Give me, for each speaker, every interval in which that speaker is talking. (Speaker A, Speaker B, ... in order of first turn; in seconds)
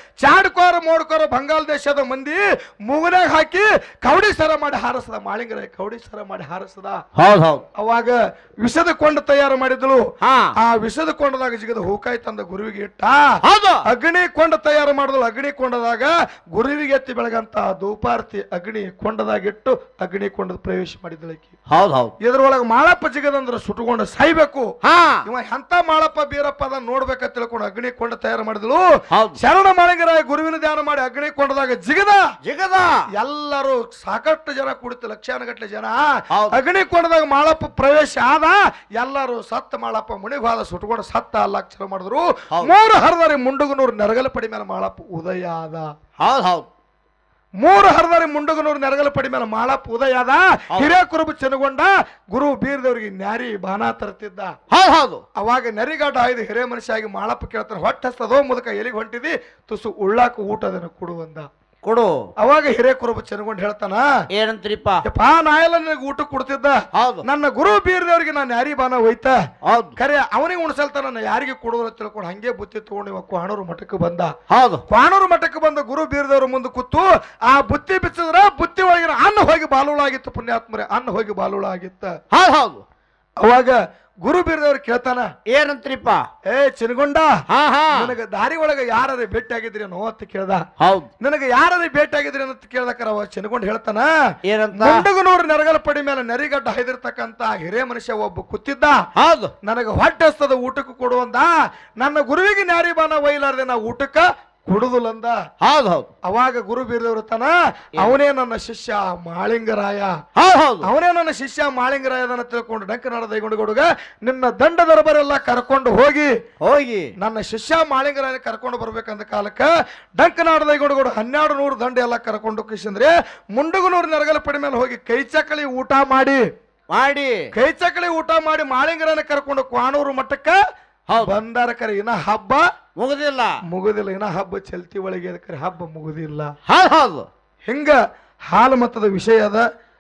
Speaker A: 0.2-7.0, 7.8-10.1, 10.6-13.3, 13.8-21.5, 22.2-24.7, 25.2-28.9, 29.4-32.3, 33.1-45.9, 47.6-54.5, 55.4-61.5, 62.4-64.1, 65.0-69.4, 70.0-74.3, 74.9-82.2, 83.4-85.3, 86.5-87.4, 87.9-90.7, 91.2-94.1, 94.8-99.0, 99.6-105.4, 106.3-110.2, 110.8-116.3, 117.2-126.4, 127.5-130.6, 131.2-132.7, 133.7-136.5, 137.7-138.0, 138.5-139.7
Speaker B: 7.2-7.6, 10.2-10.5, 13.4-13.8, 21.7-22.1, 24.8-25.2, 29.1-29.4, 32.4-33.0, 36.3-36.6, 46.2-46.7, 54.7-55.2, 61.8-62.2, 64.3-65.0, 66.9-67.3, 69.6-70.0, 74.5-74.8, 82.3-82.8, 85.5-86.2, 87.5-88.1, 90.8-91.1, 94.5-95.1, 99.2-99.5, 105.6-106.1, 110.4-110.9, 116.6-117.1, 126.9-127.5, 131.1-131.3, 133.0-133.6, 136.7-137.3